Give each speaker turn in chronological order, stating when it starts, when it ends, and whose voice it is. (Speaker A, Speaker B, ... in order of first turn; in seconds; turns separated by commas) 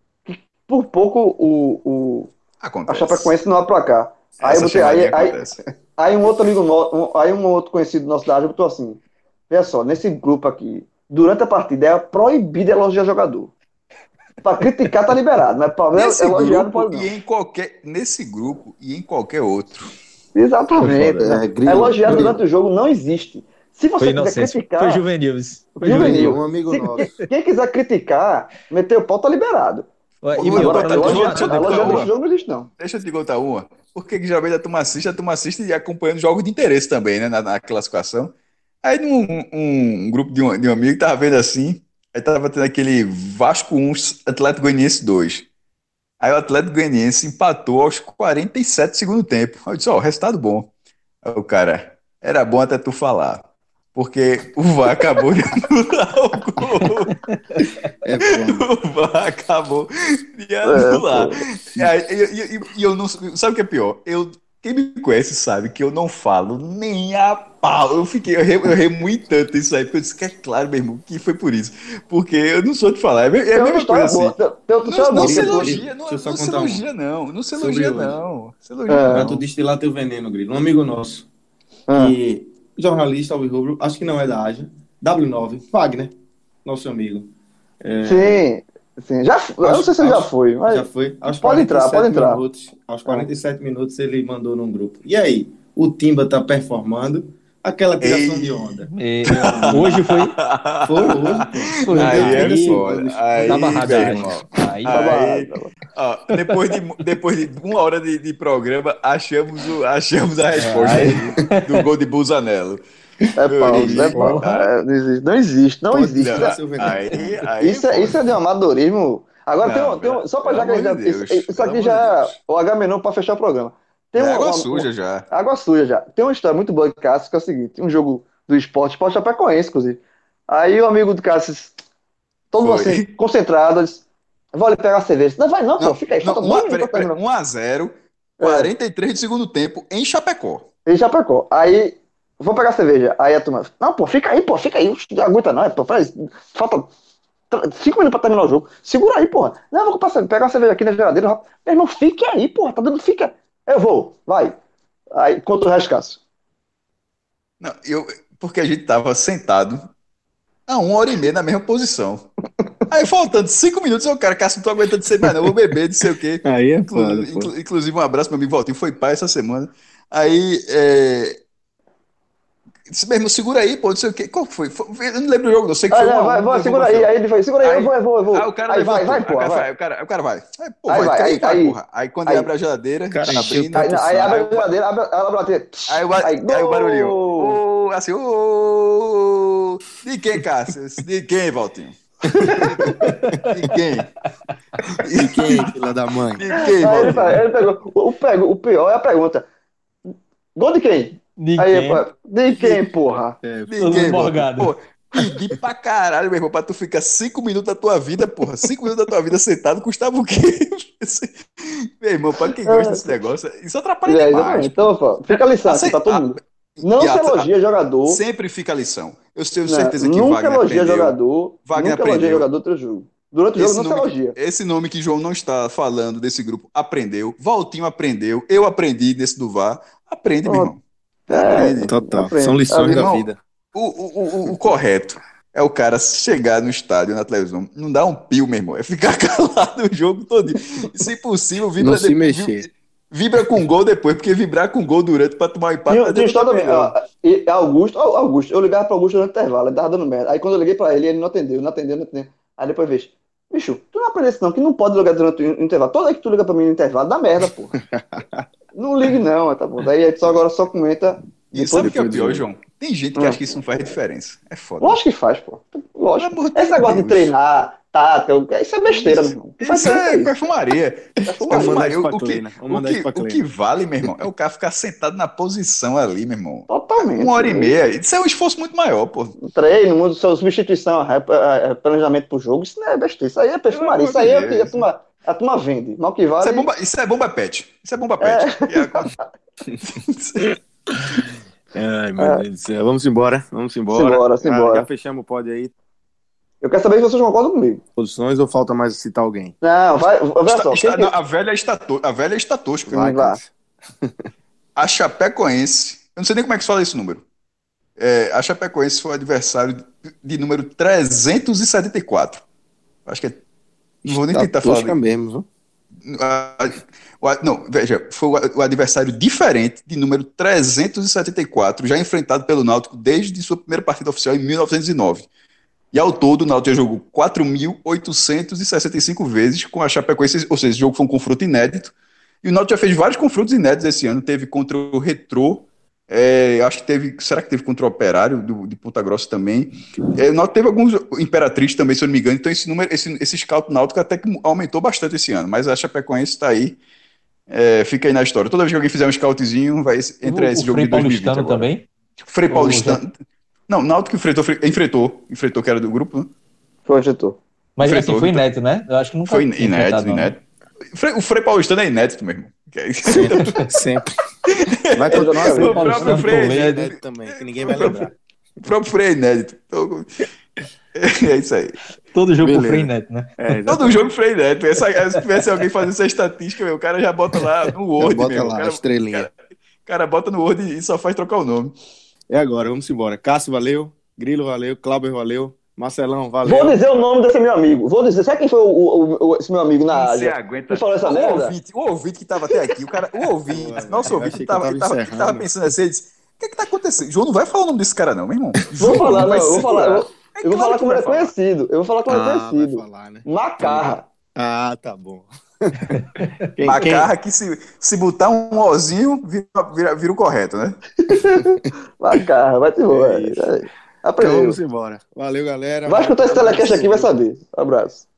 Speaker A: 0.2-2.3, Speaker B: 2.6-3.3, Speaker A: 2.9-5.4, Speaker B: 4.4-5.6, Speaker A: 6.0-13.5, Speaker A: 14.4-17.1, Speaker B: 15.9-19.9, Speaker A: 20.3-25.0, Speaker C: 20.8-21.4, Speaker D: 21.2-22.4, Speaker C: 24.0-26.4, Speaker A: 25.8-32.7, Speaker D: 25.8-27.1, Speaker C: 30.2-32.1, Speaker B: 30.4-32.1, Speaker B: 32.8-45.5, Speaker B: 46.2-50.7, Speaker B: 51.2-57.1, Speaker C: 57.5-57.8, Speaker D: 58.0-58.7, Speaker B: 58.2-79.4, Speaker A: 60.6-61.4, Speaker A: 73.5-75.8, Speaker D: 75.1-76.8, Speaker D: 77.6-78.2, Speaker A: 78.9-79.3, Speaker D: 79.1-81.3, Speaker A: 81.9-82.2, Speaker D: 81.9-86.1, Speaker D: 86.6-87.3, Speaker D: 87.8-88.4, Speaker A: 88.0-92.4, Speaker D: 89.6-100.0, Speaker B: 98.0-112.8, Speaker C: 98.9-100.3, Speaker D: 100.8-104.2, Speaker C: 101.7-102.8, Speaker C: 103.4-105.1, Speaker A: 104.9-105.7, Speaker C: 110.6-111.8, Speaker D: 110.8-111.4, Speaker A: 113.4-116.7, Speaker B: 113.5-114.7, Speaker D: 113.7-114.4, Speaker C: 114.2-114.4, Speaker D: 115.9-117.2, Speaker B: 116.1-118.2, Speaker A: 117.6-131.8, Speaker B: 119.6-122.3, Speaker B: 124.2-125.2, Speaker A: 132.5-137.1, Speaker B: 132.6-133.0, Speaker B: 135.8-140.7, Speaker A: 138.4-138.7, Speaker A: 140.8-146.9, Speaker A: 147.5-154.6, Speaker A: 155.1-156.2, Speaker B: 157.6-159.9, Speaker B: 160.7-162.2, Speaker B: 162.9-171.4, Speaker D: 165.2-165.5, Speaker D: 166.4-167.5, Speaker B: 172.9-177.1, Speaker A: 175.9-179.7, Speaker B: 177.6-184.7, Speaker A: 180.9-182.5, Speaker D: 183.1-184.3, Speaker A: 183.7-187.6, Speaker B: 185.9-192.0, Speaker D: 192.4-193.1, Speaker B: 192.9-194.1, Speaker C: 192.9-193.4, Speaker B: 195.0-195.7, Speaker D: 195.1-196.4, Speaker B: 196.3-197.4, Speaker A: 196.5-199.4, Speaker A: 200.6-203.4, Speaker C: 201.4-202.0, Speaker D: 203.4-204.4, Speaker B: 203.7-214.9, Speaker C: 203.8-204.7, Speaker A: 212.6-213.3, Speaker A: 214.1-218.2, Speaker B: 215.6-217.5, Speaker B: 218.1-222.4, Speaker A: 219.7-224.3, Speaker B: 223.6-230.8, Speaker A: 230.4-230.7, Speaker A: 231.3-233.1, Speaker B: 231.3-231.9, Speaker D: 231.5-233.4, Speaker B: 232.8-246.9, Speaker D: 241.8-242.7, Speaker A: 245.9-257.8, Speaker D: 257.7-258.4, Speaker A: 258.7-262.0, Speaker B: 261.5-265.0, Speaker D: 261.8-262.5, Speaker A: 263.1-263.4, Speaker A: 264.8-270.4, Speaker B: 266.2-267.3, Speaker B: 269.0-279.4, Speaker A: 271.3-271.8, Speaker D: 271.4-273.4, Speaker A: 276.7-277.8, Speaker A: 279.4-286.7, Speaker B: 283.7-284.8, Speaker B: 286.4-289.1, Speaker A: 288.2-289.1, Speaker B: 289.9-290.4, Speaker D: 290.5-291.2, Speaker D: 291.7-295.7, Speaker A: 292.2-292.4, Speaker A: 293.9-294.9, Speaker A: 296.6-297.8, Speaker D: 298.0-299.5, Speaker A: 299.6-301.1, Speaker B: 300.4-303.4, Speaker A: 302.9-303.4, Speaker D: 302.9-303.5, Speaker D: 304.0-304.3, Speaker B: 304.8-307.2, Speaker B: 308.0-312.4, Speaker B: 313.1-313.4, Speaker B: 314.0-314.9, Speaker D: 314.0-315.4, Speaker B: 316.1-325.3, Speaker B: 325.9-346.8, Speaker B: 347.5-351.7, Speaker C: 350.2-351.9, Speaker B: 352.2-353.2, Speaker C: 352.5-353.0, Speaker B: 353.7-356.3, Speaker A: 356.9-357.4, Speaker C: 357.8-360.3, Speaker B: 357.8-358.4, Speaker B: 359.3-360.4, Speaker B: 360.9-363.7, Speaker D: 363.1-364.1, Speaker B: 364.5-368.1, Speaker D: 364.9-368.1, Speaker A: 365.1-365.7, Speaker C: 365.5-366.9, Speaker B: 368.6-370.1, Speaker B: 370.9-371.8, Speaker C: 372.1-373.4, Speaker D: 372.4-374.1, Speaker B: 373.7-379.3, Speaker D: 378.0-379.3, Speaker B: 379.8-381.8, Speaker D: 382.3-386.8, Speaker A: 386.4-391.6, Speaker B: 389.9-401.3, Speaker D: 393.5-395.5, Speaker A: 398.8-404.0, Speaker D: 402.1-407.1, Speaker C: 405.9-406.3, Speaker B: 406.6-410.8, Speaker A: 411.1-414.6, Speaker D: 411.4-411.7, Speaker D: 412.9-417.1, Speaker A: 415.9-418.1